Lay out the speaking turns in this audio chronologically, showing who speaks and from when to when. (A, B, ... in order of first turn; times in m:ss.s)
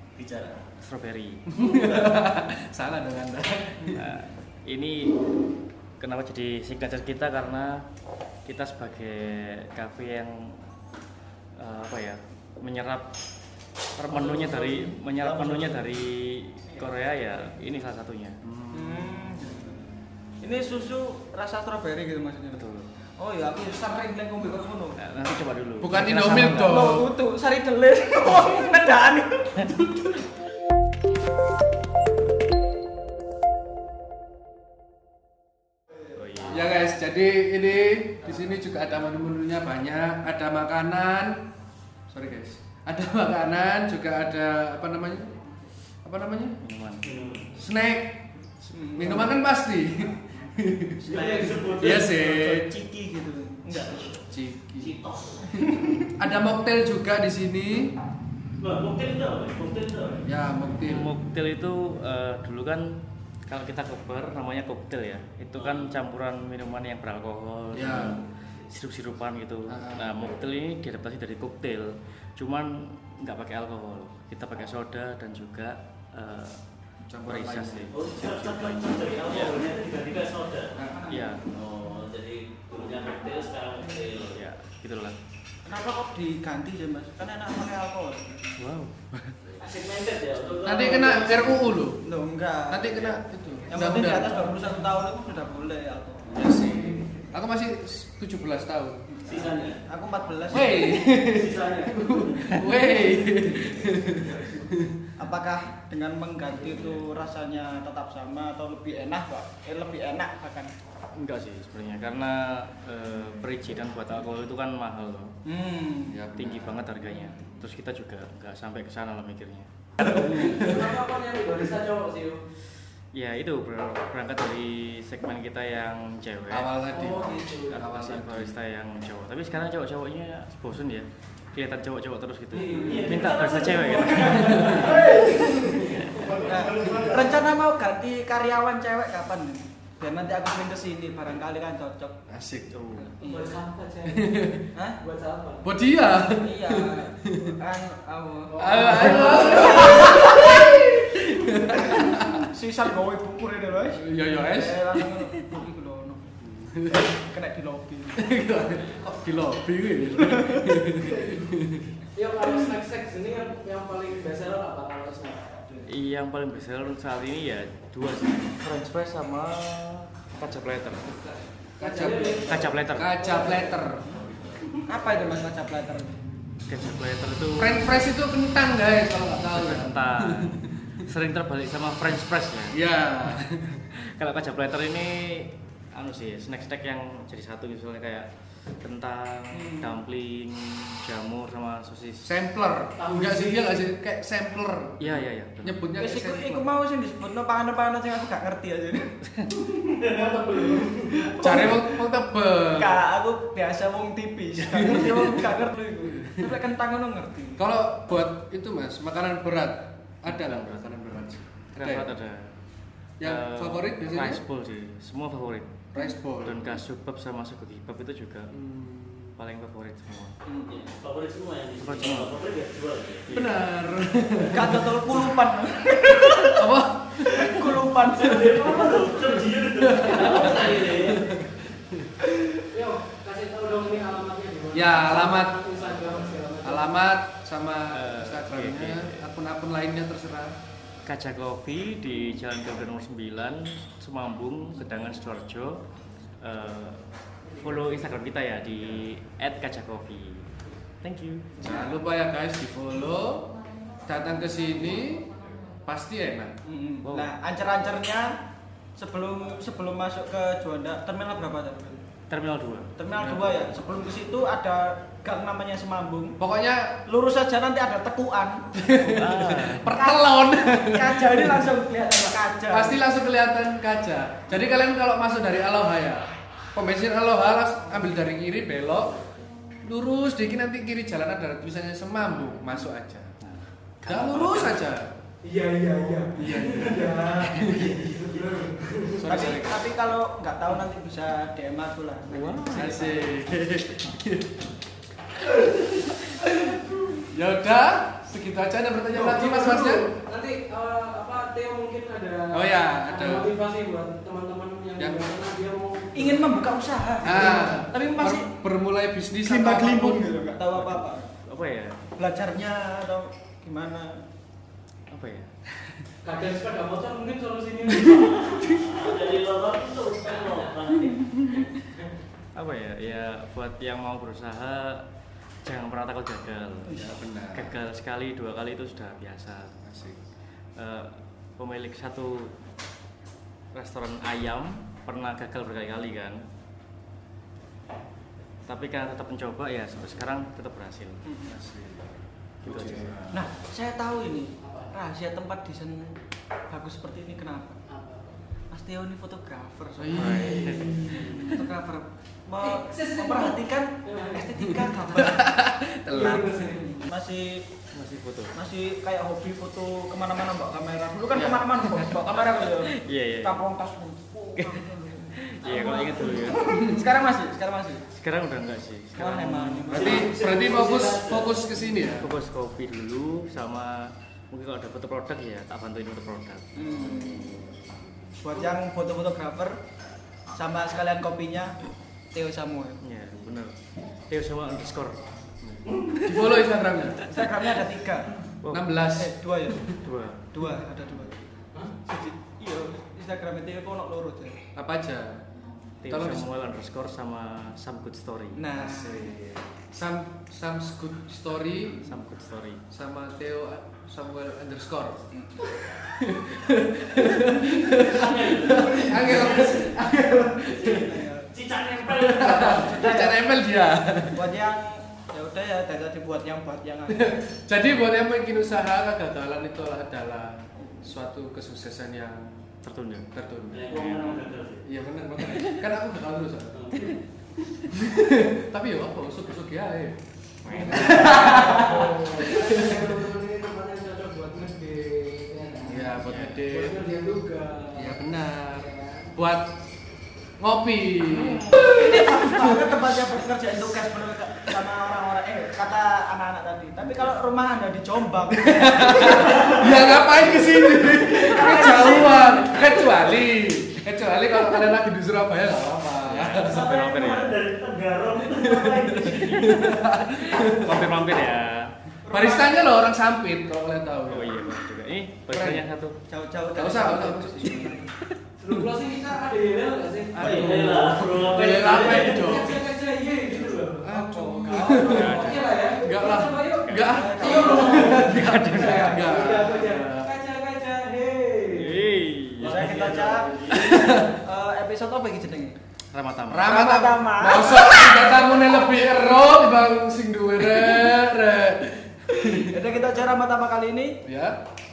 0:00.2-0:00.6 A
0:00.8-0:01.4 B
0:01.5-0:04.1 C
0:03.9-0:05.2 B
0:06.0-0:07.8 B
0:08.4-0:10.6 B
0:11.6-0:13.1 B
0:14.0-0:18.4 B
0:14.1-0:14.7 D
0:18.4-0:19.1 C
0:18.7-0:19.8 D
0:20.4-0:22.6 D
0:22.5-0:22.9 B
0:23.2-0:25.0 D
0:25.0-0:27.0 B
0:25.8-0:27.1 C
0:26.6-0:30.0 D
0:36.1-0:36.7 B
0:36.4-0:41.4 C
0:42.1-0:45.4 C
0:46.0-0:46.6 C
0:46.6-0:47.1 B
0:47.0-0:47.5 A
0:47.5-0:48.2 C
0:48.7-0:49.3 D
0:48.9-0:51.1 C
0:51.0-0:52.2 A
0:51.1-0:54.1 D
0:51.1-0:51.7 E
0:51.8-0:52.7 C
0:54.3-0:55.0 C
0:54.8-0:55.5 A
0:55.5-0:56.1 D
0:56.1-0:57.9 C
0:58.6-1:00.2 A
1:00.2-1:01.1 C
1:00.8-1:16.6 B
1:05.6-1:05.9 A
1:07.7-1:08.2 C
1:09.7-1:10.1 C
1:17.0-1:17.9 C
1:17.2-1:19.6 B
1:17.9-1:20.7 A
1:20.8-1:21.4 D
1:21.1-1:21.4 B
1:21.4-1:24.4 A
1:24.3-1:25.2 B
1:25.6-1:28.5 D
1:28.6-1:29.4 B
1:29.4-1:31.5 A
1:30.6-1:32.0 C
1:32.0-1:33.2 D
1:32.7-1:34.4 C
1:33.7-1:36.3 D
1:36.3-1:39.2 C
1:39.2-1:39.8 A
1:39.3-1:40.9 D
1:40.5-1:45.1 C
1:41.2-1:42.6 A
1:45.2-1:50.7 D
1:51.1-1:55.3 B
1:55.4-1:56.2 D
1:56.1-1:56.9 C
1:56.3-1:59.7 B
2:00.0-2:02.4 E
2:00.0-2:00.7 C
2:03.1-2:06.7 B
2:06.5-2:08.6 C
2:06.9-2:07.8 E
2:07.7-2:15.1 B
2:12.5-2:17.1 E
2:12.6-2:15.1 A
2:12.7-2:13.0 D
2:14.4-2:16.0 C
2:14.8-2:22.2 D
2:15.7-2:16.4 B
2:16.3-2:17.3 A
2:22.3-2:23.0 C
2:22.7-2:23.1 B
2:23.2-2:23.5 D
2:23.2-2:24.4 E
2:24.1-2:24.7 C
2:24.7-2:25.0 D
2:25.0-2:25.7 E
2:25.6-2:27.5 C
2:26.4-2:30.6 D
2:28.5-2:30.0 E
2:28.6-2:32.5 C
2:31.8-2:36.3 D
2:34.0-2:35.3 C
2:36.4-2:37.1 C
2:36.9-2:38.2 D
2:38.2-2:41.9 C
2:40.2-2:41.4 D
2:42.1-2:45.5 E
2:45.8-2:51.1 B
2:51.8-2:54.1 C
2:51.8-2:53.9 E
2:52.5-2:53.1 B
2:54.8-2:56.2 D
2:56.7-2:57.9 B
2:57.6-3:01.0 C
2:59.5-3:02.8 B
3:02.7-3:03.8 C
3:03.9-3:08.3 B
3:08.8-3:12.3 B
3:09.5-3:10.0 D
3:12.2-3:16.7 C
3:13.0-3:13.7 E
3:15.0-3:15.8 B
3:16.0-3:22.0 D
3:20.0-3:21.2 E
3:21.4-3:23.0 C
3:22.7-3:27.6 D
3:24.6-3:25.5 C
3:26.2-3:26.6 C
3:27.6-3:32.1 C
3:30.2-3:30.8 B
3:31.7-3:32.5 B
3:33.2-3:34.4 C
3:33.2-3:35.9 B
3:35.9-3:36.8 C
3:36.4-3:38.5 B
3:38.5-3:39.4 C
3:39.4-3:40.3 B
3:40.5-3:43.4 A
3:41.8-3:42.3 B
3:43.3-3:45.2 C
3:44.5-3:49.1 D
3:46.3-3:48.5 C
3:48.1-3:51.2 A
3:49.7-3:52.2 C
3:52.7-3:56.9 E
3:54.7-3:55.7 C
3:56.6-4:00.6 C
3:57.9-3:59.2 B
4:01.0-4:05.8 B
4:06.4-4:07.0 B
4:07.6-4:10.5 B
4:11.0-4:11.6 B
4:11.6-4:15.3 C
4:15.8-4:16.6 C
4:16.6-4:18.4 D
4:17.0-4:17.3 B
4:19.0-4:22.0 D
4:22.3-4:22.9 B
4:23.0-4:26.4 D
4:23.1-4:23.6 C
4:26.4-4:27.0 C
4:27.0-4:28.7 D
4:28.7-4:31.7 C
4:29.0-4:29.9 B
4:29.9-4:33.0 D
4:32.7-4:39.2 C
4:39.8-4:43.3 C
4:43.4-4:44.8 B
4:44.0-4:45.1 C
4:45.4-4:49.5 E
4:46.4-4:48.1 C
4:49.2-4:49.8 C
4:49.2-4:53.2 D
4:52.3-4:53.2 B
4:52.7-4:54.6 C
4:55.4-5:00.1 C
4:59.1-5:06.4 E
5:02.5-5:03.5 C
5:05.0-5:05.4 C
5:06.1-5:08.5 D
5:07.2-5:10.4 C
5:09.4-5:11.3 D
5:10.6-5:12.0 B
5:12.2-5:14.2 D
5:15.1-5:16.0 B
5:16.2-5:18.7 E
5:18.3-5:21.6 A
5:22.5-5:25.0 B
5:25.6-5:29.7 B
5:26.9-5:27.8 C
5:29.8-5:30.2 C
5:30.8-5:32.5 B
5:33.7-5:36.4 B
5:38.7-5:41.2 B
5:41.2-5:41.5 D
5:41.4-5:42.1 C
5:42.6-5:43.3 B
5:42.6-5:43.4 C
5:43.3-5:46.1 D
5:44.6-5:44.9 E
5:46.7-5:47.8 D
5:47.9-5:48.4 E
5:48.7-5:55.5 D
5:50.0-5:51.5 C
5:50.1-5:51.1 B
5:50.7-5:51.5 E
5:52.6-5:54.4 E
5:54.7-5:56.6 C
5:56.1-5:57.0 E
5:56.1-5:57.6 D
5:57.9-5:58.5 B
5:58.5-6:08.0 D
6:01.3-6:03.6 B
6:04.6-6:06.7 B
6:06.6-6:07.1 C
6:08.1-6:10.2 B
6:09.2-6:10.3 D
6:09.9-6:12.3 C
6:09.9-6:11.5 A
6:10.4-6:11.2 E
6:12.0-6:17.6 B
6:16.7-6:17.6 D
6:18.4-6:19.8 D
6:20.5-6:21.8 D
6:22.3-6:23.0 D
6:23.0-6:23.7 B
6:24.3-6:25.2 B
6:25.6-6:27.2 C
6:25.9-6:26.2 A
6:26.3-6:26.5 B
6:27.2-6:28.3 D
6:27.3-6:27.8 B
6:28.6-6:29.0 B
6:28.7-6:30.0 C
6:29.1-6:29.9 D
6:30.0-6:30.5 B
6:30.5-6:31.4 D
6:32.0-6:34.6 D
6:34.7-6:35.4 C
6:36.0-6:38.7 B
6:36.0-6:36.5 C
6:38.6-6:39.3 D
6:38.8-6:42.1 C
6:42.0-6:42.8 B
6:42.9-6:45.3 C
6:45.9-6:51.1 C
6:48.0-6:50.0 A
6:50.6-6:53.1 A
6:50.9-6:51.5 D
6:52.1-6:54.5 C
6:52.8-6:53.4 D
6:54.3-6:57.3 D
6:57.1-7:02.7 C
7:02.8-7:03.3 B
7:03.3-7:03.9 C
7:03.7-7:04.8 A
7:03.9-7:04.4 B
7:04.8-7:07.0 C
7:05.4-7:05.8 B
7:06.7-7:07.1 A
7:07.8-7:10.2 C
7:10.6-7:11.7 B
7:10.7-7:19.3 E
7:10.7-7:13.1 C
7:15.8-7:17.0 C
7:16.2-7:16.6 B
7:18.0-7:19.7 C
7:20.6-7:22.9 C
7:21.3-7:32.9 D
7:28.5-7:36.9 C
7:36.2-7:37.5 B
7:36.5-7:39.8 A
7:38.5-7:41.1 C
7:39.3-7:41.9 B
7:42.2-7:42.9 D
7:42.3-7:44.7 C
7:44.3-7:46.2 B
7:45.5-7:45.8 C
7:46.3-7:48.0 D
7:46.7-7:48.0 C
7:48.6-7:50.7 E
7:50.3-7:52.8 C
7:50.4-7:52.6 A
7:51.7-7:54.1 E
7:54.0-8:00.4 C
7:54.0-7:55.6 D
7:54.7-8:02.1 E
7:55.1-7:55.6 B
7:57.1-7:58.3 D
7:58.2-7:59.2 B
8:01.7-8:03.1 B
8:02.6-8:04.1 A
8:02.6-8:05.8 D
8:03.7-8:04.4 C
8:06.1-8:06.7 B
8:06.5-8:12.8 C
8:06.6-8:08.6 D
8:12.4-8:14.2 D
8:14.2-8:14.6 C